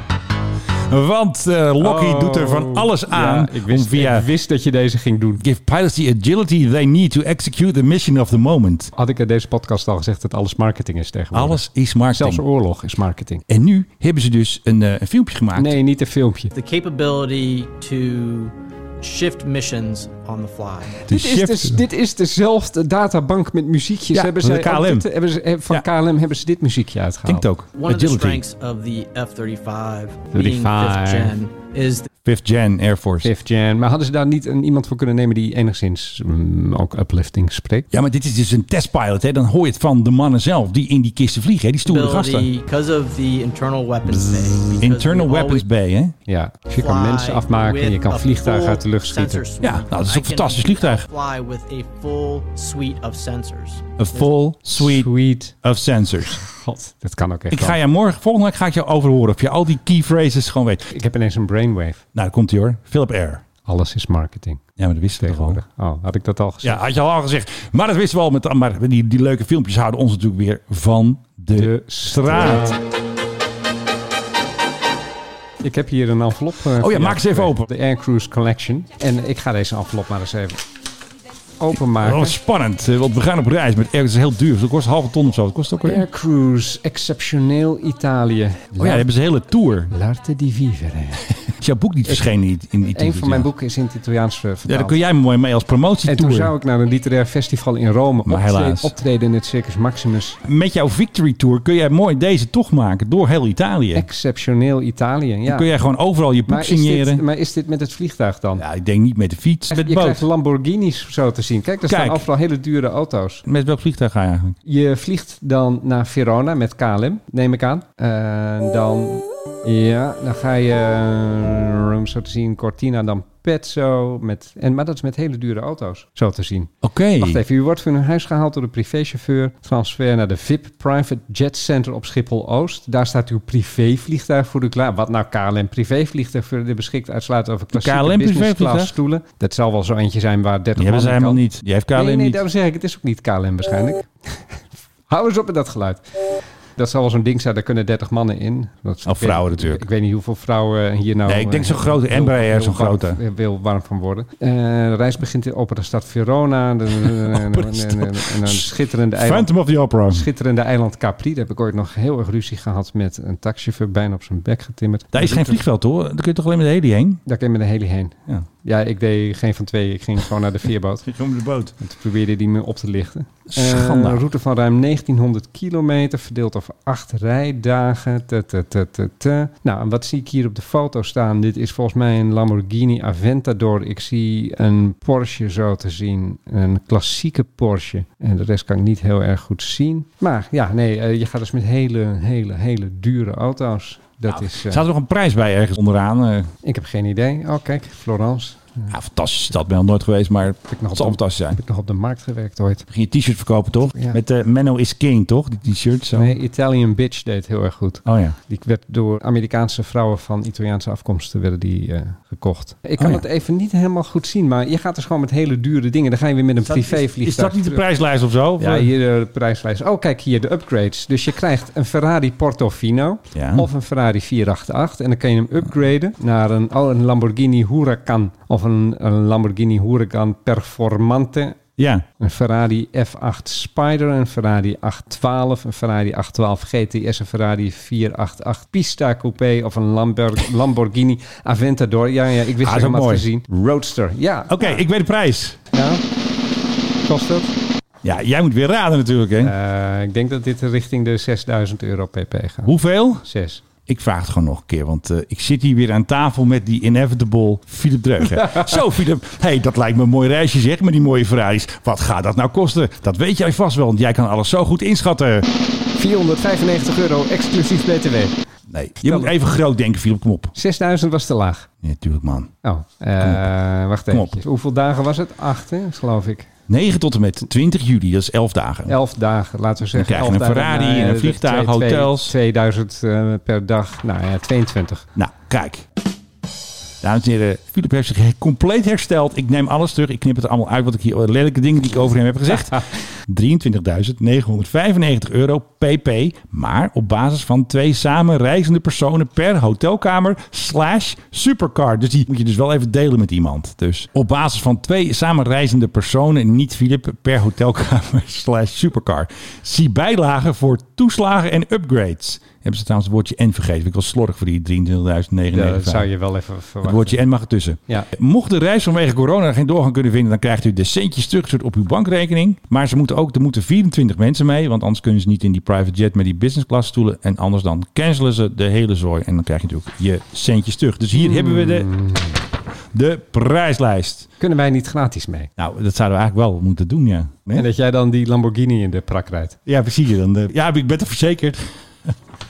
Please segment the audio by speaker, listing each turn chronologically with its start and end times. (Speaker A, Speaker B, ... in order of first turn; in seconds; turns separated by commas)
Speaker A: 0.9-4.3, Speaker B: 1.8-5.4, Speaker A: 5.4-8.9, Speaker B: 8.9-13.4, Speaker A: 11.3-12.4, Speaker A: 13.5-15.8, Speaker B: 15.6-16.5, Speaker C: 16.5-21.0, Speaker A: 21.1-21.8, Speaker B: 21.1-27.5, Speaker A: 24.1-25.1, Speaker A: 27.3-28.4, Speaker C: 27.8-32.1, Speaker B: 30.3-31.4, Speaker A: 32.2-33.3, Speaker B: 33.2-37.9, Speaker A: 37.9-42.5, Speaker C: 41.9-45.6, Speaker A: 44.1-46.1, Speaker B: 46.3-49.5, Speaker C: 46.7-54.2, Speaker A: 49.6-51.1, Speaker A: 54.0-55.1, Speaker B: 54.8-55.5, Speaker A: 55.6-56.4, Speaker B: 56.3-57.8, Speaker A: 57.5-60.9, Speaker B: 60.9-62.0, Speaker A: 62.1-63.4, Speaker B: 63.6-64.6, Speaker A: 64.8-65.6, Speaker B: 65.2-66.8, Speaker A: 66.6-72.8, Speaker B: 71.5-72.8, Speaker B: 75.6-80.6, Speaker A: 76.8-77.7, Speaker B: 81.6-82.4, Speaker A: 82.0-86.0, Speaker B: 85.8-89.1, Speaker A: 88.8-89.9, Speaker B: 89.9-91.3, Speaker A: 91.6-93.5, Speaker B: 92.9-95.0, Speaker A: 94.7-96.5, Speaker B: 96.1-100.4, Speaker A: 98.3-98.9, Speaker A: 100.4-104.1, Speaker B: 103.9-105.7, Speaker A: 105.5-107.2, Speaker B: 106.5-108.6, Speaker A: 108.6-110.2, Speaker B: 109.7-113.4, Speaker A: 111.9-112.3, Speaker A: 113.5-114.6, Speaker B: 114.7-141.4, Speaker A: 126.8-127.4, Speaker A: 137.7-138.9, Speaker A: 140.8-142.4, Speaker B: 141.9-144.6, Speaker B: 145.1-146.1, Speaker B: 146.8-159.5, Speaker A: 149.1-149.9, Speaker A: 151.3-153.2, Speaker A: 157.0-160.3, Speaker B: 160.1-165.6, Speaker A: 165.1-167.2, Speaker B: 167.3-171.1, Speaker A: 171.1-171.7, Speaker B: 171.8-194.8, Speaker A: 173.5-174.3, Speaker A: 194.3-196.5, Speaker B: 196.6-198.9, Speaker A: 198.9-201.6, Speaker B: 200.7-202.9, Speaker A: 202.9-206.4, Speaker B: 203.9-204.2, Speaker B: 206.1-217.8, Speaker A: 208.1-208.4, Speaker A: 216.7-218.9, Speaker B: 218.6-231.6, Speaker A: 223.3-223.7, Speaker A: 231.8-232.1, Speaker B: 232.2-244.8, Speaker A: 242.6-243.3, Speaker A: 244.5-245.6, Speaker B: 245.7-246.0, Speaker B: 247.0-247.5, Speaker A: 248.0-249.5, Speaker B: 249.4-253.6, Speaker A: 252.7-253.2, Speaker A: 253.9-265.5, Speaker B: 258.4-258.7, Speaker B: 266.0-268.4, Speaker A: 268.7-270.5, Speaker B: 269.0-269.3, Speaker B: 270.6-271.7, Speaker A: 271.8-272.5, Speaker B: 272.6-276.5, Speaker A: 273.2-273.5, Speaker A: 274.1-274.4, Speaker A: 276.7-279.0, Speaker B: 278.9-285.1, Speaker A: 279.9-282.4, Speaker A: 285.2-285.9, Speaker A: 287.0-316.1, Speaker B: 315.5-317.2, Speaker A: 316.8-331.9, Speaker B: 331.1-332.4, Speaker A: 332.9-334.3, Speaker B: 334.4-335.5, Speaker A: 335.6-337.7, Speaker B: 337.5-339.6, Speaker A: 339.7-342.1